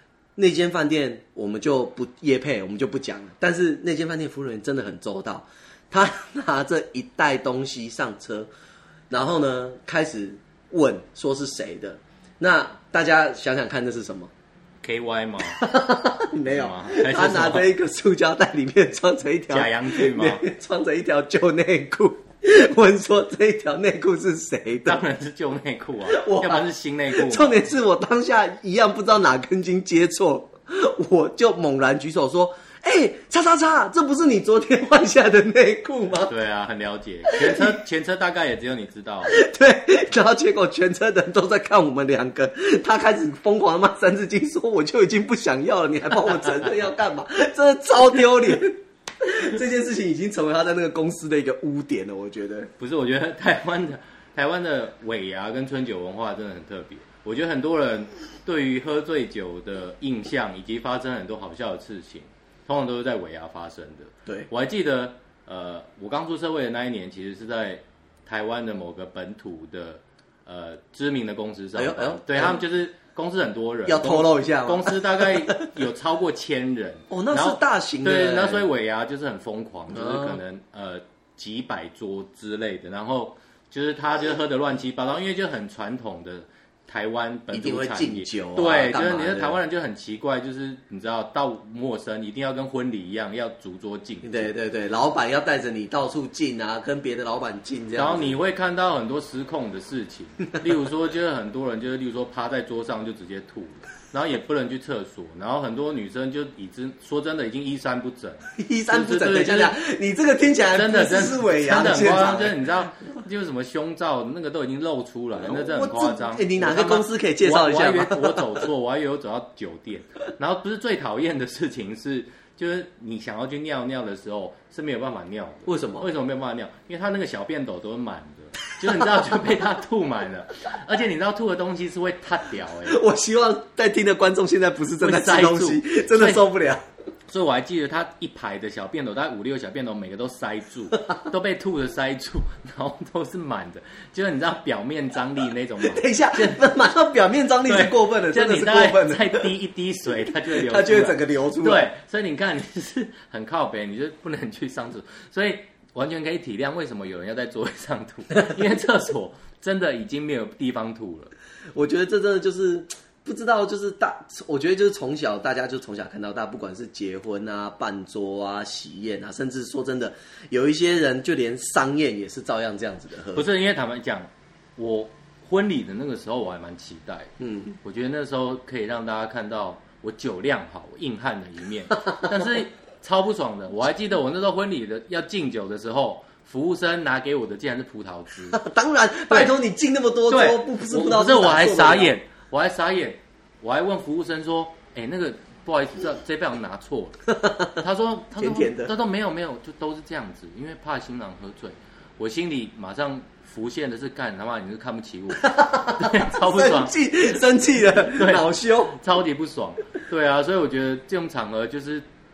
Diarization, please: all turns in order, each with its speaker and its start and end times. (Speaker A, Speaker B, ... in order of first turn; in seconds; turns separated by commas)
Speaker A: 0.4-8.5, Speaker A: 9.1-14.3, Speaker B: 14.8-15.6, Speaker A: 15.5-25.0, Speaker B: 16.5-17.7, Speaker B: 19.5-20.4, Speaker B: 24.9-27.6, Speaker A: 26.1-36.3, Speaker B: 36.3-39.4, Speaker A: 37.2-37.8, Speaker A: 39.2-52.7, Speaker B: 52.8-94.5, Speaker A: 71.8-72.6, Speaker A: 73.9-75.7, Speaker A: 77.1-78.7, Speaker A: 79.9-80.4, Speaker A: 87.5-89.6, Speaker A: 94.2-98.3, Speaker B: 98.0-109.7, Speaker A: 108.5-112.6, Speaker B: 110.7-133.0, Speaker A: 115.3-118.6, Speaker A: 125.6-126.1, Speaker A: 132.8-136.8, Speaker B: 135.0-136.5, Speaker B: 137.3-146.6, Speaker A: 145.8-149.5, Speaker B: 147.7-161.3, Speaker A: 150.3-151.9, Speaker A: 161.8-173.5, Speaker B: 173.3-177.3, Speaker A: 177.4-177.8, Speaker B: 177.8-188.6, Speaker A: 188.5-192.1, Speaker B: 190.3-197.2, Speaker A: 197.3-197.8, Speaker B: 197.7-206.9, Speaker A: 198.3-198.9, Speaker A: 205.4-209.0, Speaker B: 207.9-212.0